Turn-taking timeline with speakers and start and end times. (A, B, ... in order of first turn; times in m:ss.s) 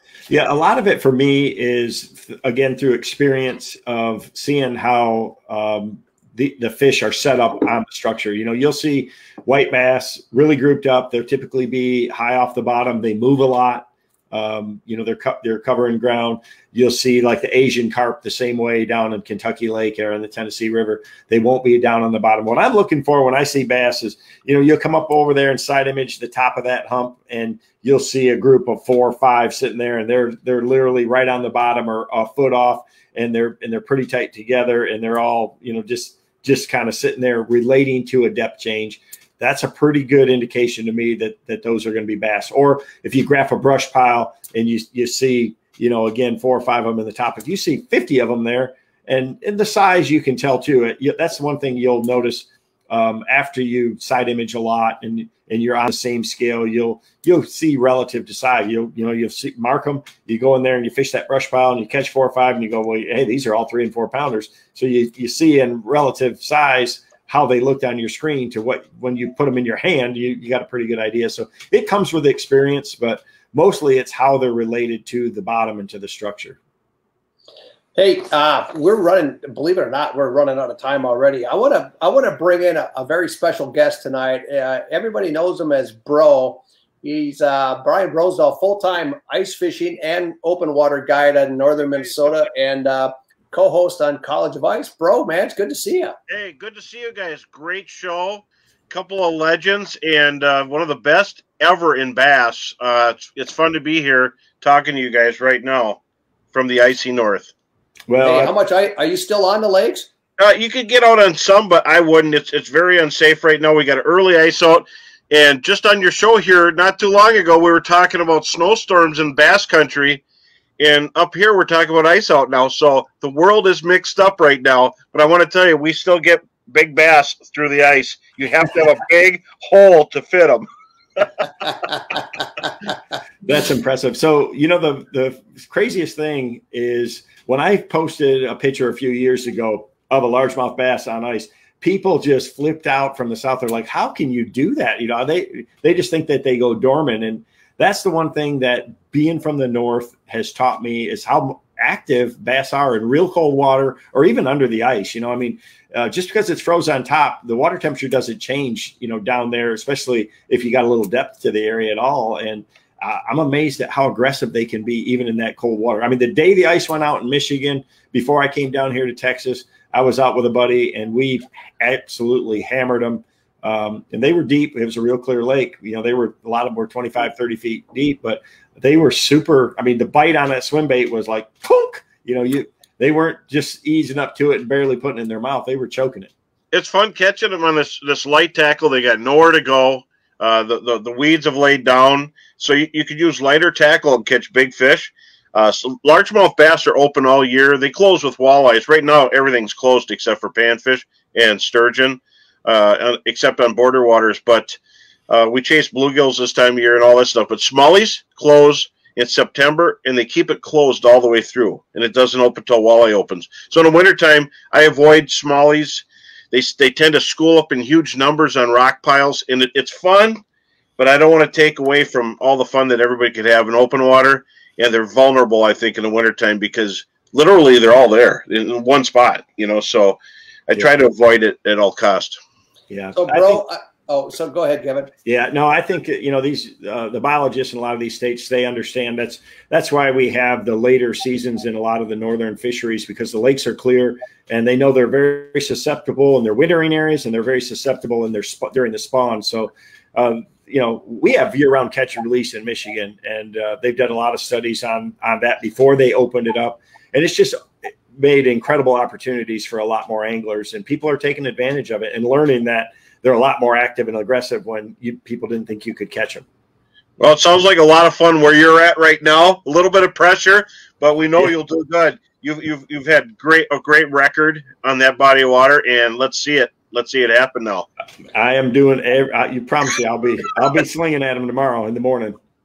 0:00.3-1:16.6 A
1:18.0-1:36.1 B
1:36.3-1:46.0 C
1:46.5-1:47.5 C
1:48.1-1:48.5 A
1:48.2-1:50.1 B
1:50.4-2:00.2 C
2:00.8-2:11.9 C
2:13.4-3:06.3 A
3:06.7-3:24.8 C
3:25.3-3:40.4 C
3:41.0-3:52.4 C
3:52.9-3:53.6 A
3:53.2-3:55.1 B
3:55.2-4:26.4 A
4:27.2-4:37.9 C
4:38.3-4:42.4 A